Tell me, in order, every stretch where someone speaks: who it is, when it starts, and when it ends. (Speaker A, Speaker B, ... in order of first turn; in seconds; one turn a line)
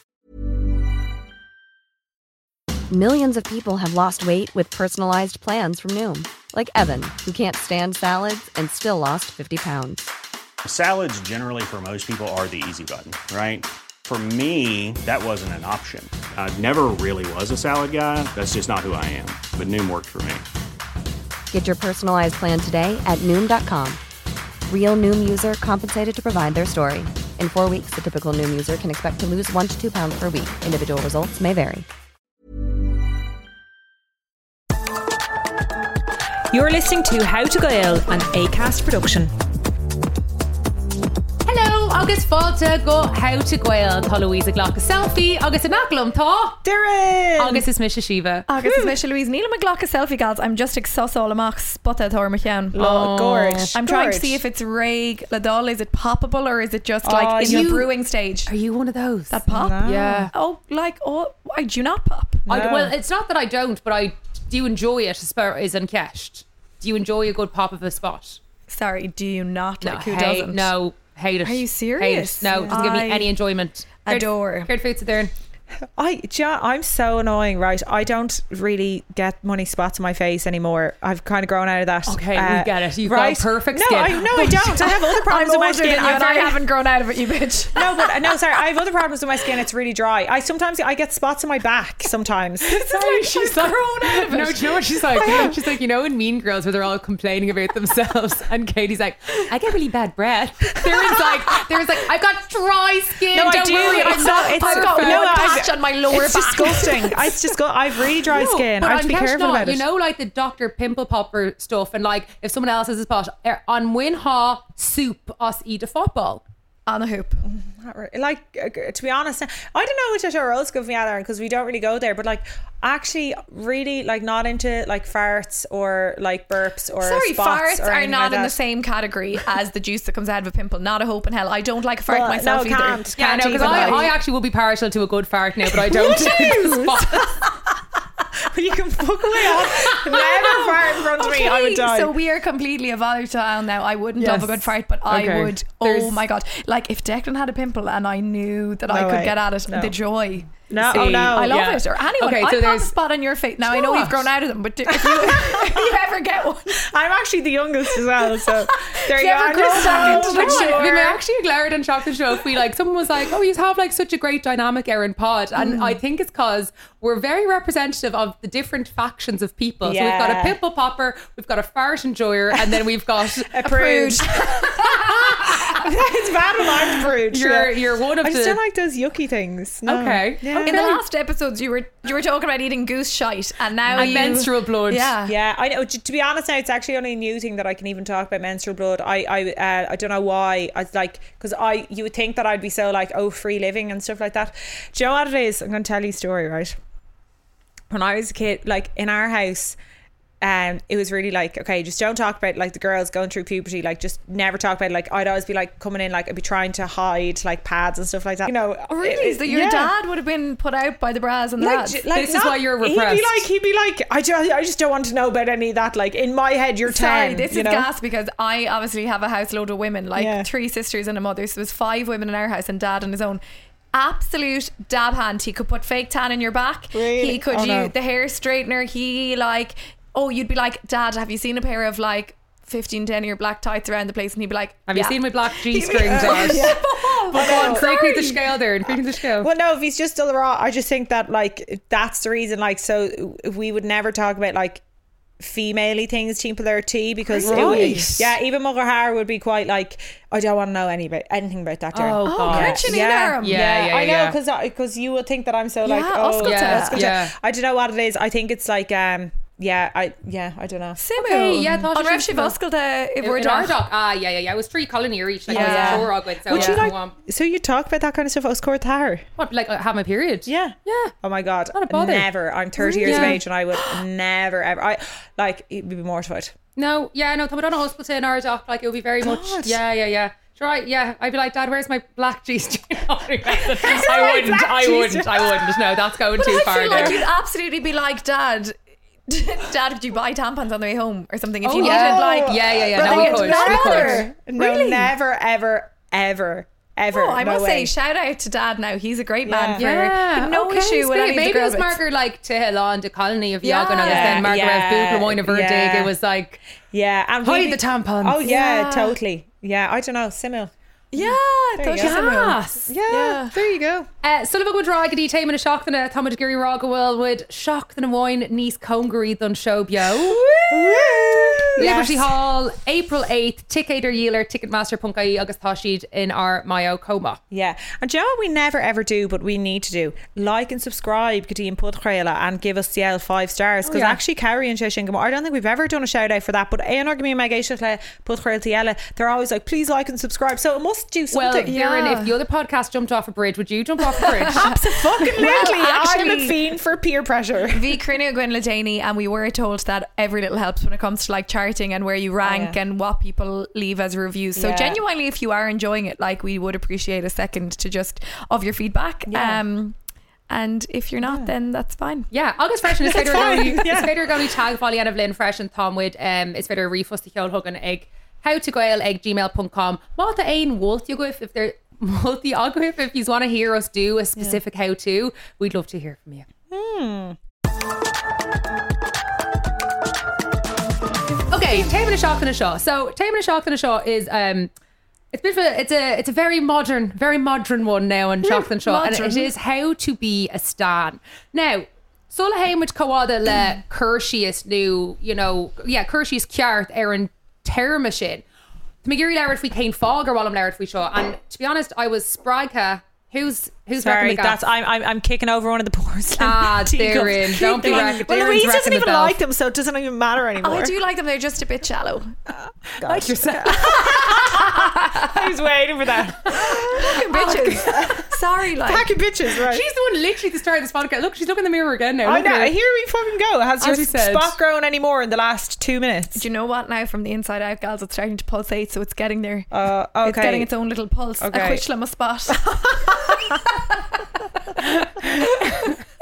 Speaker A: 2.9-10.1
Speaker B: 10.6-20.4
Speaker A: 21.5-24.0
Speaker A: 24.7-31.9
Speaker C: 36.5-39.3
Speaker D: 41.5-46.6
Speaker C: 46.6-47.6
Speaker D: 47.4-48.5
Speaker E: 48.5-52.8
Speaker C: 48.6-49.0
Speaker C: 52.7-54.4
Speaker D: 52.8-53.7
Speaker E: 53.7-58.5
Speaker C: 57.0-57.8
Speaker D: 57.5-57.9
Speaker D: 58.5-60.3
Speaker E: 59.3-59.8
Speaker C: 59.5-60.3
Speaker E: 60.3-62.5
Speaker C: 62.5-63.0
Speaker D: 62.5-68.4
Speaker E: 68.7-70.7
Speaker D: 69.8-75.3
Speaker C: 70.1-70.4
Speaker E: 71.4-73.3
Speaker C: 72.4-73.0
Speaker E: 74.0-74.7
Speaker C: 76.0-86.6
Speaker D: 82.1-84.5
Speaker E: 84.4-87.8
Speaker C: 87.8-92.8
Speaker E: 92.7-95.5
Speaker D: 92.8-105.7
Speaker C: 103.3-109.8
Speaker E: 103.8-107.4
Speaker D: 108.3-116.4
Speaker E: 116.9-117.4
Speaker C: 117.4-128.6
Speaker E: 127.0-134.1
Speaker C: 132.1-134.1
Speaker D: 133.2-137.4
Speaker C: 135.7-137.4
Speaker C: 138.4-142.2
Speaker E: 139.9-156.8
Speaker D: 144.2-146.2
Speaker C: 148.9-149.9
Speaker C: 150.7-151.6
Speaker D: 150.8-152.9
Speaker D: 153.7-154.3
Speaker C: 154.9-156.0
Speaker C: 156.8-161.2
Speaker E: 157.9-161.2
Speaker D: 159.8-173.5
Speaker E: 165.6-165.9
Speaker C: 169.8-170.6
Speaker C: 173.4-180.8
Speaker E: 173.7-175.2
Speaker D: 177.3-178.6
Speaker D: 179.9-181.0
Speaker E: 180.6-185.3
Speaker C: 183.8-184.5
Speaker D: 184.0-185.1
Speaker C: 185.3-196.8
Speaker C: 197.9-199.8
Speaker C: 200.4-209.9
Speaker E: 208.9-212.0
Speaker C: 211.6-217.9
Speaker D: 212.1-213.4
Speaker E: 216.8-223.4
Speaker C: 220.2-220.5
Speaker E: 223.9-238.4
Speaker C: 226.9-227.9
Speaker D: 234.9-236.8
Speaker C: 236.1-238.2
Speaker D: 237.3-239.5
Speaker C: 238.8-244.8
Speaker C: 245.4-261.0
Speaker E: 247.3-248.3
Speaker D: 247.5-248.2
Speaker D: 251.9-254.4
Speaker E: 252.3-253.6
Speaker E: 255.8-257.1
Speaker D: 256.4-257.3
Speaker E: 261.0-263.8
Speaker D: 261.2-262.6
Speaker D: 263.2-267.1
Speaker C: 265.5-269.2
Speaker E: 265.5-266.8
Speaker D: 269.4-271.1
Speaker C: 270.5-276.5
Speaker D: 271.7-272.3
Speaker E: 272.8-273.4
Speaker D: 273.1-273.4
Speaker D: 276.8-287.2
Speaker C: 279.2-279.8
Speaker C: 283.7-286.0
Speaker E: 283.9-284.7
Speaker E: 286.4-288.8
Speaker C: 286.9-287.2
Speaker E: 289.3-295.1
Speaker D: 291.6-294.3
Speaker C: 291.8-297.9
Speaker E: 297.1-302.0
Speaker C: 299.5-299.8
Speaker D: 299.8-306.6
Speaker E: 303.6-304.5
Speaker C: 304.0-306.1
Speaker C: 306.9-310.7
Speaker D: 307.4-308.5
Speaker E: 308.5-309.1
Speaker E: 311.1-313.5
Speaker C: 311.2-312.2
Speaker D: 312.0-312.9
Speaker C: 312.9-314.1
Speaker D: 314.2-320.7
Speaker C: 320.3-322.4
Speaker E: 321.4-321.9
Speaker D: 321.8-327.4
Speaker C: 327.5-341.8
Speaker D: 333.9-334.2
Speaker D: 341.3-344.7
Speaker E: 341.7-342.3
Speaker E: 344.2-346.6
Speaker C: 344.5-348.0
Speaker E: 347.7-360.0
Speaker C: 352.4-352.8
Speaker C: 354.6-355.0
Speaker C: 359.3-359.6
Speaker E: 360.5-362.3
Speaker C: 361.2-361.5
Speaker D: 362.3-376.5
Speaker C: 363.0-364.5
Speaker C: 376.7-377.4
Speaker D: 381.5-384.7
Speaker D: 385.3-398.4
Speaker E: 388.4-389.5
Speaker D: 399.0-404.6
Speaker C: 404.0-410.9
Speaker D: 406.4-409.4
Speaker E: 410.6-412.4
Speaker C: 412.5-418.2
Speaker D: 413.0-414.6
Speaker E: 416.6-419.1
Speaker C: 418.8-419.9
Speaker D: 419.7-422.7
Speaker C: 422.2-426.4
Speaker D: 423.8-424.6
Speaker E: 426.3-429.7
Speaker C: 429.7-430.7
Speaker E: 430.2-434.2
Speaker C: 431.4-431.8
Speaker C: 432.5-433.5
Speaker E: 435.4-435.9